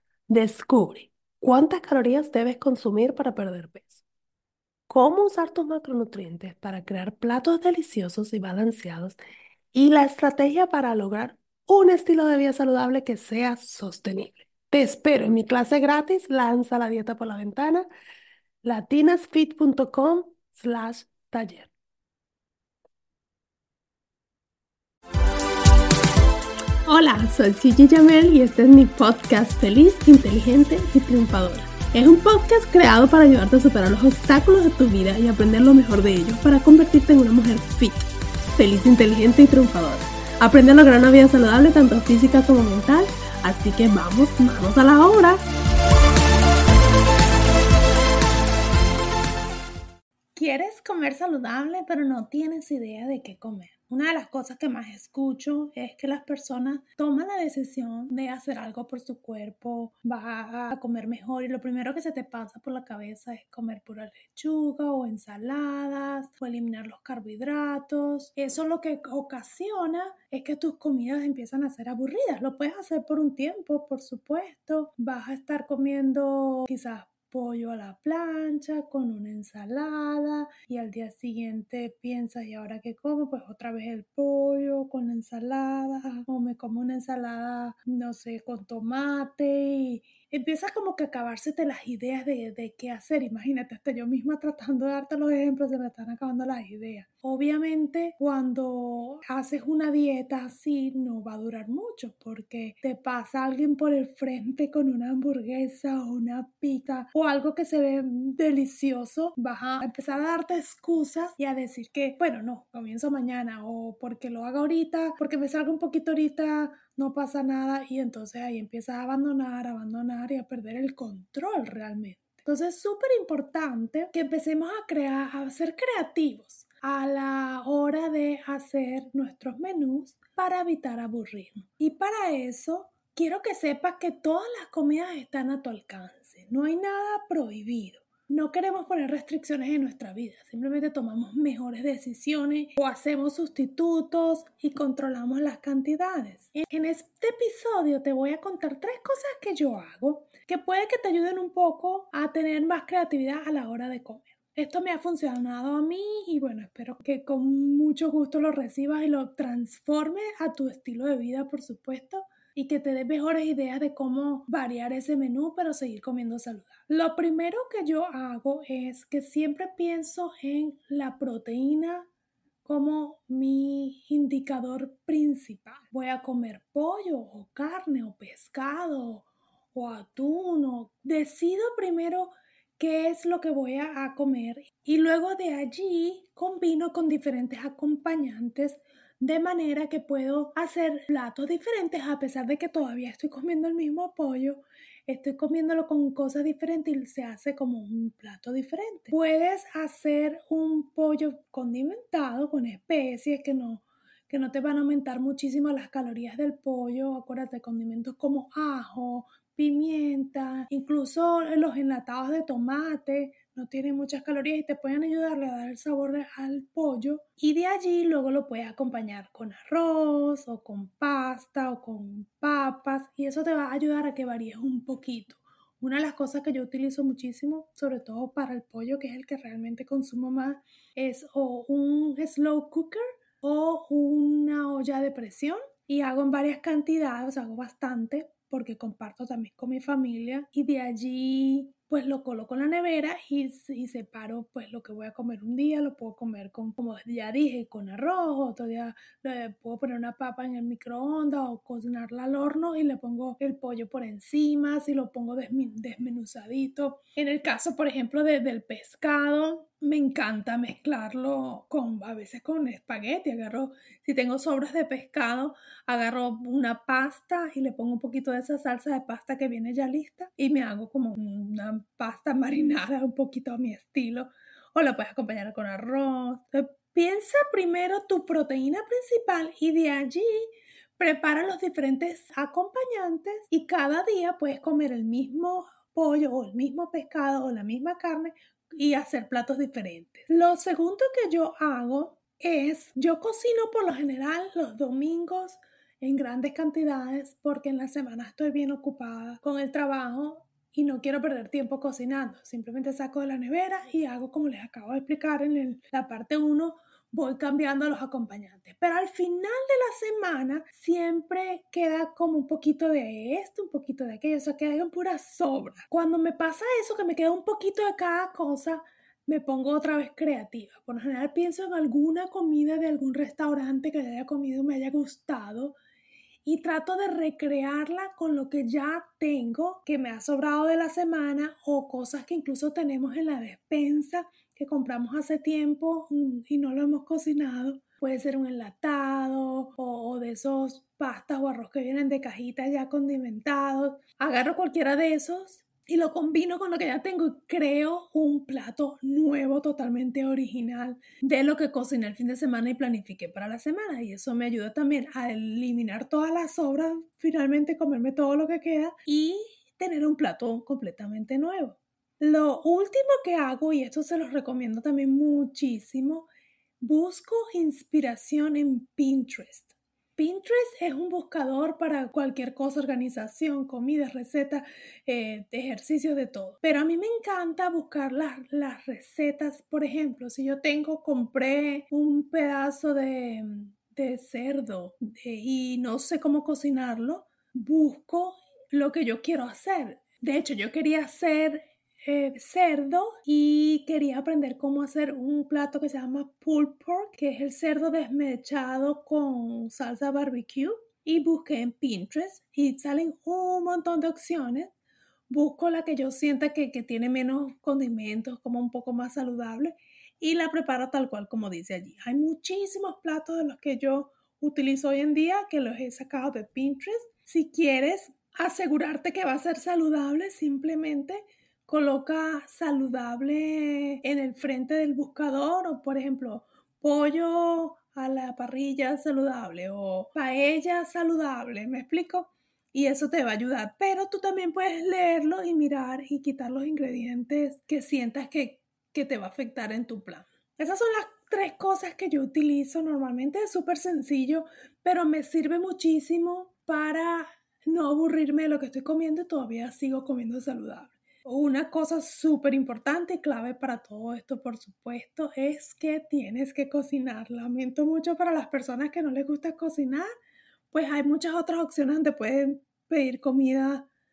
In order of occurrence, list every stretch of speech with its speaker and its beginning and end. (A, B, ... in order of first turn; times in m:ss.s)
0:00.3-0:04.0 A
0:04.9-0:09.2 A
0:09.7-0:17.9 A
0:18.6-0:21.7 A
0:26.9-0:38.0 A
0:38.6-0:45.4 A
0:50.4-2:52.1 A
2:52.6-5:25.8 A
5:26.4-6:06.3 A
6:06.8-6:44.7 A
6:45.3-7:40.1 A
7:40.7-7:43.9 A